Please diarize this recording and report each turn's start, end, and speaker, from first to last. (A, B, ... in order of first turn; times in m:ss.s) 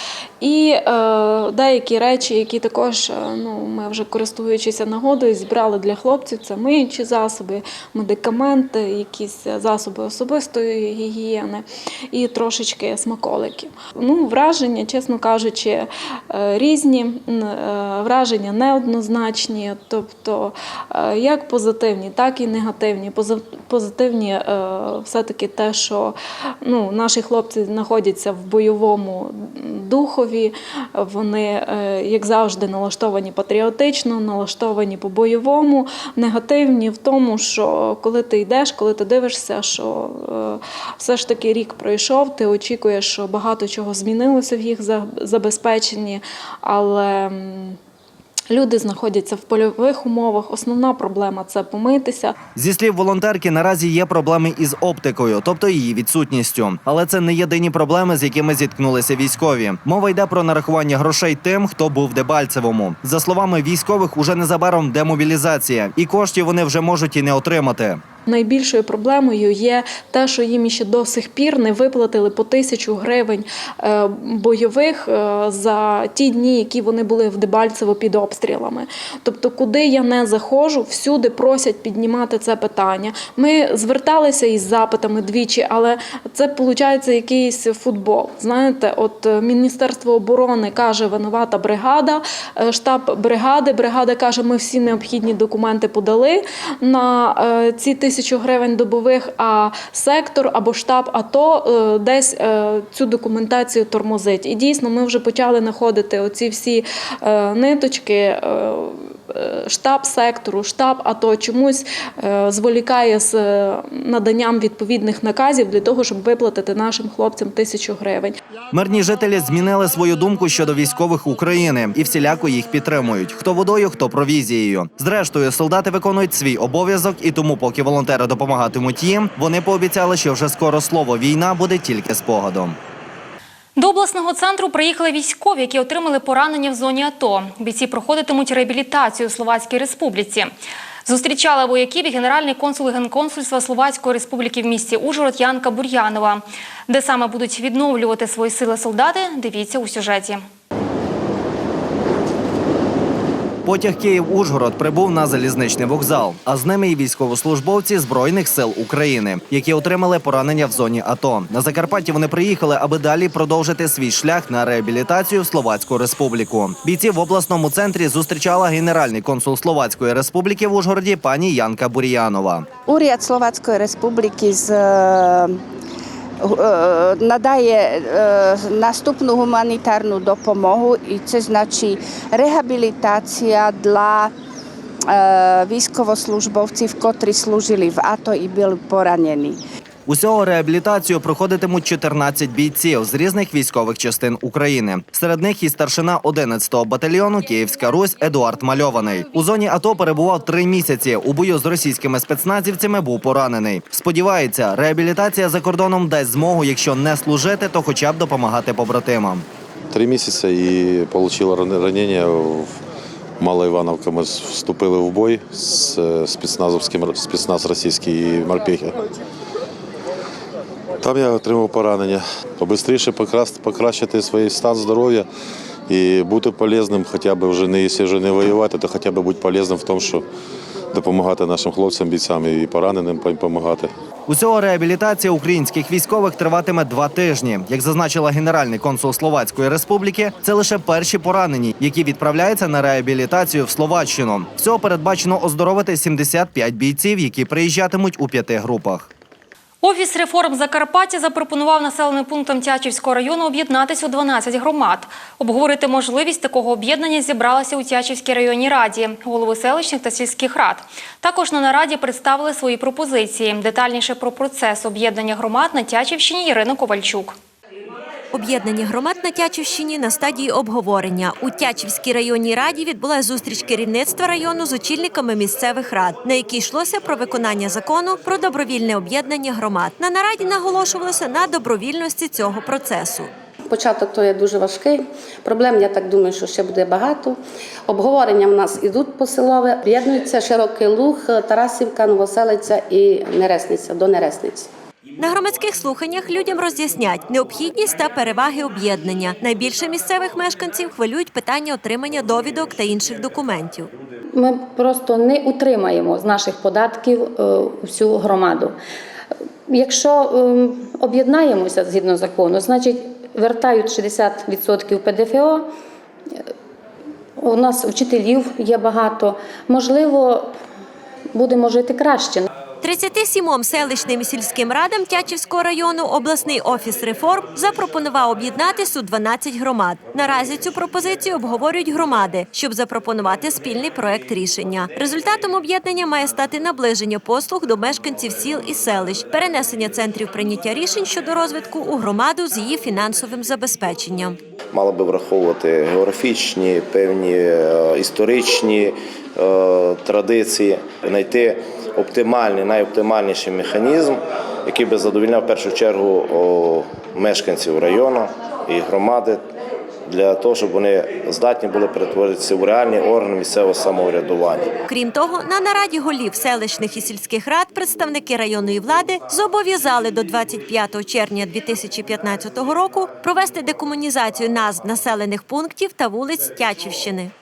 0:00.4-0:47.8 A
0:48.5-0:52.3 A
0:52.6-1:08.0 B
1:08.3-1:58.3 A
1:58.7-2:12.8 B
2:13.8-2:20.5 C
2:21.0-2:30.4 C
2:33.6-2:52.7 B
2:52.9-2:55.6 D
2:56.4-3:04.3 D
3:05.1-3:09.6 D
3:10.1-3:29.4 B
3:29.9-3:32.8 E
3:33.4-3:39.0 E
3:41.0-3:45.3 E
3:45.9-3:50.2 E
3:50.9-3:53.9 E
3:54.3-4:09.1 B
4:09.8-4:27.4 C
4:28.3-4:43.3 F
4:43.7-4:47.4 G
4:47.9-4:54.7 G
4:55.2-5:03.9 F
5:04.3-5:08.7 H
5:09.7-5:15.7 H
5:17.4-5:20.6 H
5:21.3-5:22.5 H
5:22.8-5:44.4 F
5:44.7-5:59.5 I
6:00.1-6:04.7 I
6:04.9-6:17.3 F